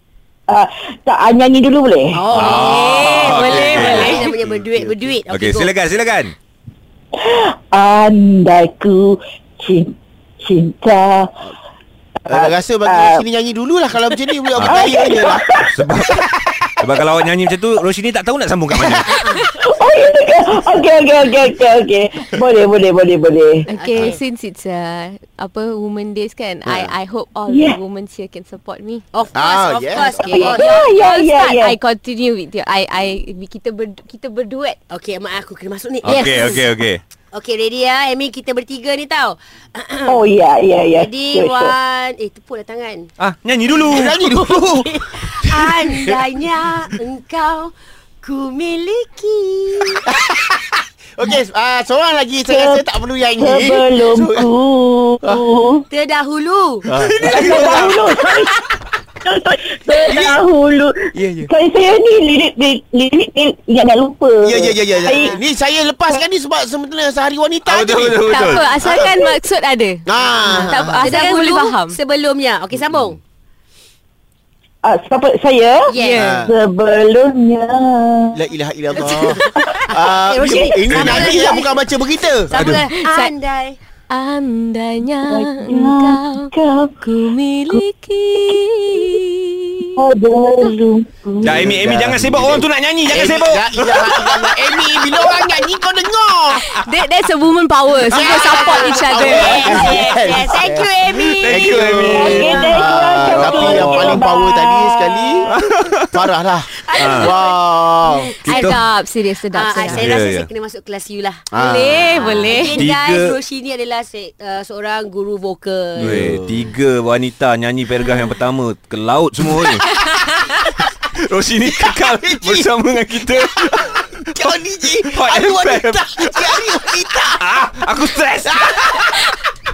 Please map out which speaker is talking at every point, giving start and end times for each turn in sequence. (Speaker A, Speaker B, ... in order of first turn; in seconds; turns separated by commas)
Speaker A: 0.5-2.4, Speaker B: 2.1-5.7, Speaker C: 2.3-4.3, Speaker D: 2.4-5.2, Speaker C: 5.3-6.3, Speaker A: 7.2-11.3, Speaker A: 12.2-13.2, Speaker D: 12.3-15.4, Speaker C: 14.6-14.9, Speaker A: 14.6-16.2, Speaker C: 15.7-16.2, Speaker C: 16.8-19.2, Speaker B: 18.9-19.4, Speaker A: 19.6-23.6, Speaker E: 23.7-29.1, Speaker B: 23.7-24.2, Speaker A: 27.5-27.8, Speaker B: 29.1-31.0, Speaker D: 29.3-30.6, Speaker E: 30.0-34.8, Speaker A: 30.5-31.8, Speaker B: 34.9-36.6, Speaker C: 36.0-37.0, Speaker E: 36.1-36.6, Speaker B: 37.3-40.2, Speaker A: 40.0-41.7, Speaker B: 41.0-43.1, Speaker C: 43.2-44.1, Speaker D: 43.9-46.3, Speaker B: 44.5-50.0, Speaker D: 50.1-54.5, Speaker A: 52.5-55.8, Speaker B: 55.9-56.8, Speaker D: 56.8-57.1, Speaker C: 56.9-58.5, Speaker A: 57.2-65.4, Speaker D: 60.0-60.4, Speaker D: 61.1-61.5, Speaker D: 64.4-69.2, Speaker B: 65.0-65.4, Speaker C: 67.6-68.7, Speaker E: 68.3-70.0, Speaker D: 70.0-71.1, Speaker B: 70.4-73.2, Speaker E: 70.6-72.0, Speaker A: 74.8-78.4, Speaker B: 75.9-76.3, Speaker E: 75.9-76.5, Speaker D: 76.2-76.5, Speaker D: 78.3-82.5, Speaker B: 79.1-81.7, Speaker A: 80.5-81.5, Speaker C: 80.9-81.3, Speaker B: 82.5-83.8, Speaker C: 82.5-82.8, Speaker E: 82.9-83.3, Speaker E: 84.1-90.0, Speaker A: 85.3-87.0, Speaker A: 88.4-89.2, Speaker A: 90.0-91.8, Speaker D: 91.4-96.6, Speaker C: 91.4-94.5, Speaker E: 96.7-100.0, Speaker D: 98.0-105.5, Speaker B: 98.2-102.7, Speaker C: 101.4-102.4, Speaker A: 102.0-105.6, Speaker C: 103.3-104.1, Speaker C: 105.5-106.2, Speaker D: 106.1-108.3, Speaker B: 106.9-107.5, Speaker C: 106.9-107.3, Speaker C: 108.4-108.8, Speaker E: 108.4-110.1, Speaker B: 109.5-116.2, Speaker C: 109.8-110.5, Speaker D: 111.5-112.2, Speaker E: 111.5-112.9, Speaker C: 112.6-113.3, Speaker C: 116.0-124.5, Speaker D: 116.0-116.7, Speaker D: 121.9-122.7, Speaker D: 123.3-129.2, Speaker C: 125.0-129.3